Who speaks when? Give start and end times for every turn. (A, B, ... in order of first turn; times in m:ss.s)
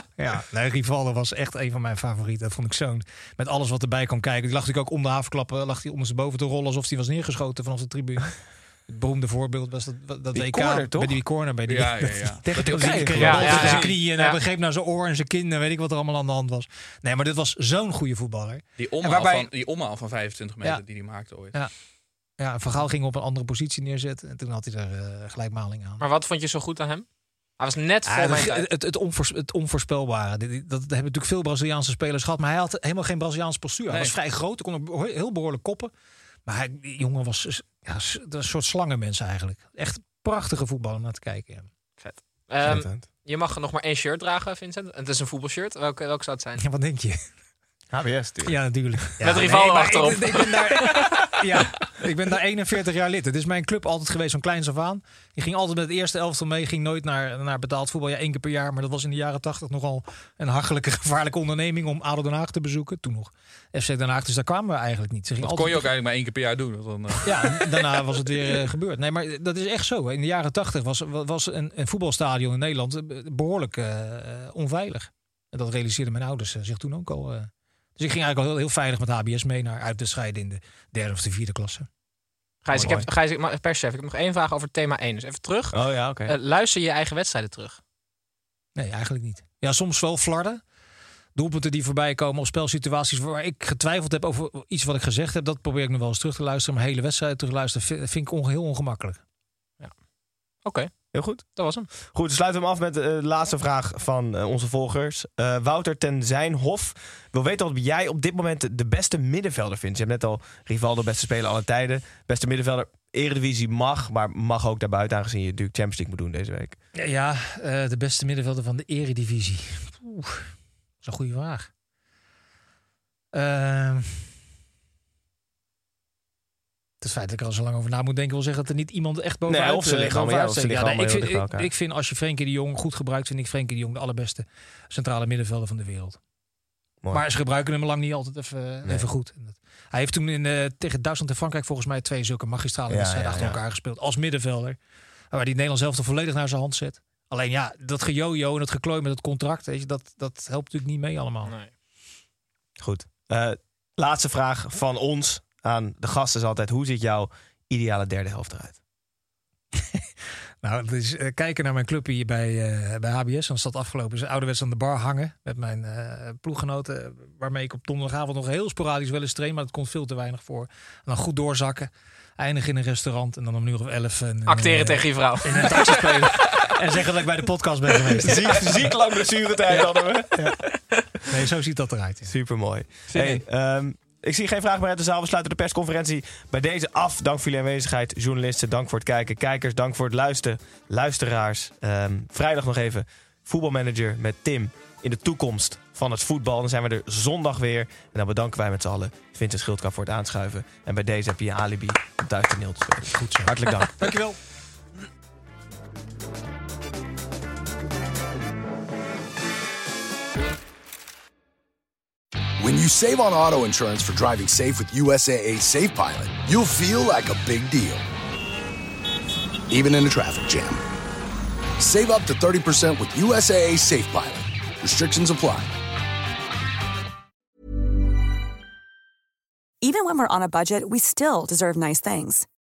0:00.2-0:19.4 A
0:10.3-0:11.2 B
0:11.6-0:14.0 C
0:12.4-0:13.7 B
0:13.2-0:14.4 D
0:18.8-0:21.6 C
0:19.2-0:19.4 D
0:20.6-0:21.8 A
0:22.4-0:26.0 A
0:26.0-0:28.7 D
0:28.0-0:35.9 A
0:33.9-0:34.1 C
0:36.4-0:41.7 A
0:42.0-0:46.7 D
0:42.6-0:43.0 B
0:46.6-0:47.2 A
0:47.9-0:49.1 B
0:48.4-1:05.8 A
0:49.2-0:51.1 D
1:05.4-1:07.8 C
1:07.2-1:21.9 A
1:22.6-1:27.8 D
1:22.7-1:23.1 A
1:25.7-1:26.3 B
1:28.8-1:30.6 A
1:31.3-1:39.2 A
1:40.6-1:41.9 D
1:41.1-1:56.8 B
1:56.9-2:01.7 A
2:03.3-2:04.3 A
2:07.0-2:16.2 A
2:09.5-2:11.7 B
2:17.1-2:24.8 A
2:22.9-2:23.6 B
2:25.3-2:31.6 A
2:31.4-2:31.7 D
2:32.8-2:38.8 B
2:40.6-2:58.9 A
2:54.4-2:56.3 D
2:58.2-3:00.6 B
3:01.3-3:02.3 A
3:02.2-3:24.1 B
3:03.1-3:03.4 D
3:23.1-3:24.4 A
3:32.6-3:38.0 E
3:39.7-3:40.8 E
3:41.8-3:45.7 E
3:49.8-3:52.4 F